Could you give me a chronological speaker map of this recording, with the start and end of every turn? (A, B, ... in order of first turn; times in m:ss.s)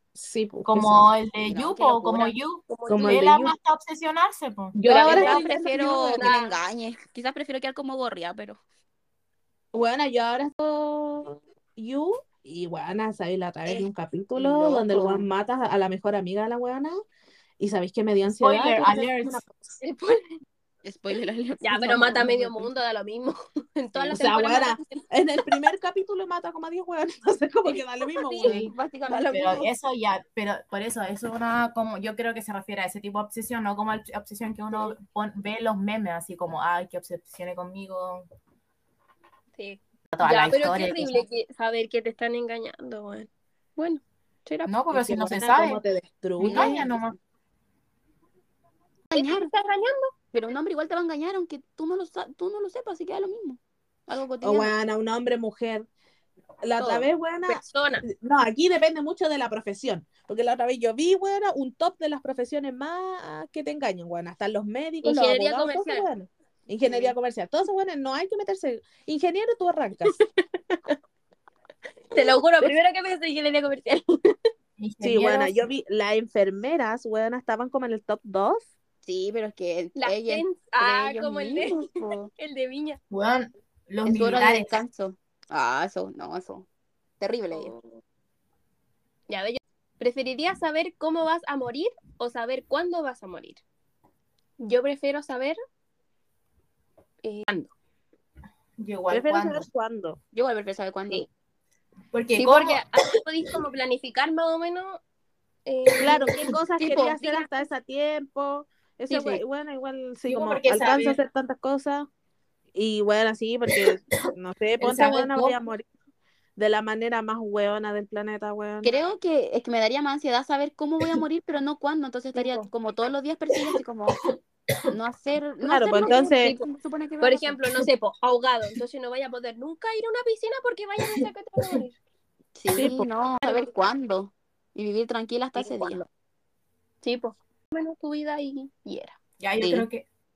0:00.2-0:01.1 A
0:00.6-0:04.8 B
0:01.5-0:02.3 C
0:02.7-0:03.3 D
0:02.9-0:03.5 A
0:04.7-0:06.4 A
0:04.8-0:05.5 D
0:04.9-0:08.6 C
0:06.2-0:06.6 D
0:09.7-0:17.0 A
0:13.7-0:15.3 C
0:17.6-0:19.8 A
0:18.4-0:19.4 B
0:19.8-0:20.4 D
0:20.8-0:22.7 C
0:21.6-0:25.1 D
0:24.1-0:28.7 A
0:27.7-0:28.5 D
0:28.4-0:29.7 C
0:28.4-0:38.3 B
0:39.6-0:44.7 D
0:40.1-0:41.2 B
0:44.7-0:45.8 B
0:44.9-0:46.8 A
0:46.4-0:47.2 B
0:46.5-0:47.1 C
0:49.1-0:49.5 C
0:49.1-0:50.1 D
0:50.3-0:54.7 C
0:54.4-0:55.9 A
0:56.6-1:10.2 A
0:56.8-0:57.1 C
0:57.5-0:58.0 D
1:05.0-1:06.1 D
1:06.8-1:07.1 D
1:10.1-1:11.0 D
1:12.1-1:14.3 D
1:14.8-1:15.7 B
1:15.0-1:18.7 A
1:19.0-1:22.3 C
1:20.0-1:23.0 D
1:23.1-1:24.8 B
1:24.0-1:26.7 C
1:27.2-1:27.8 C
1:29.3-1:33.6 D
1:34.6-1:35.6 D
1:37.2-1:37.7 D
1:38.8-1:39.7 B
1:39.1-1:40.2 A
1:40.3-1:41.2 C
1:42.1-1:42.8 B
1:42.4-1:45.0 D
1:45.7-1:47.5 D
1:46.0-1:46.5 B
1:46.0-1:52.1 A
1:46.8-1:47.2 C
1:49.1-1:49.4 D
1:50.3-1:51.2 B
1:52.7-1:55.9 A
1:54.8-1:55.6 B
1:56.6-1:58.9 A
1:58.8-2:04.2 C
2:02.4-2:02.7 D
2:03.5-2:05.0 B
2:04.9-2:07.6 C
2:05.6-2:06.5 A
2:05.9-2:06.7 D
2:07.2-2:12.0 D
2:12.6-2:16.0 C
2:12.7-2:13.1 A
2:15.6-2:16.0 D
2:17.0-2:19.2 D
2:19.4-2:20.0 B
2:19.6-2:19.9 C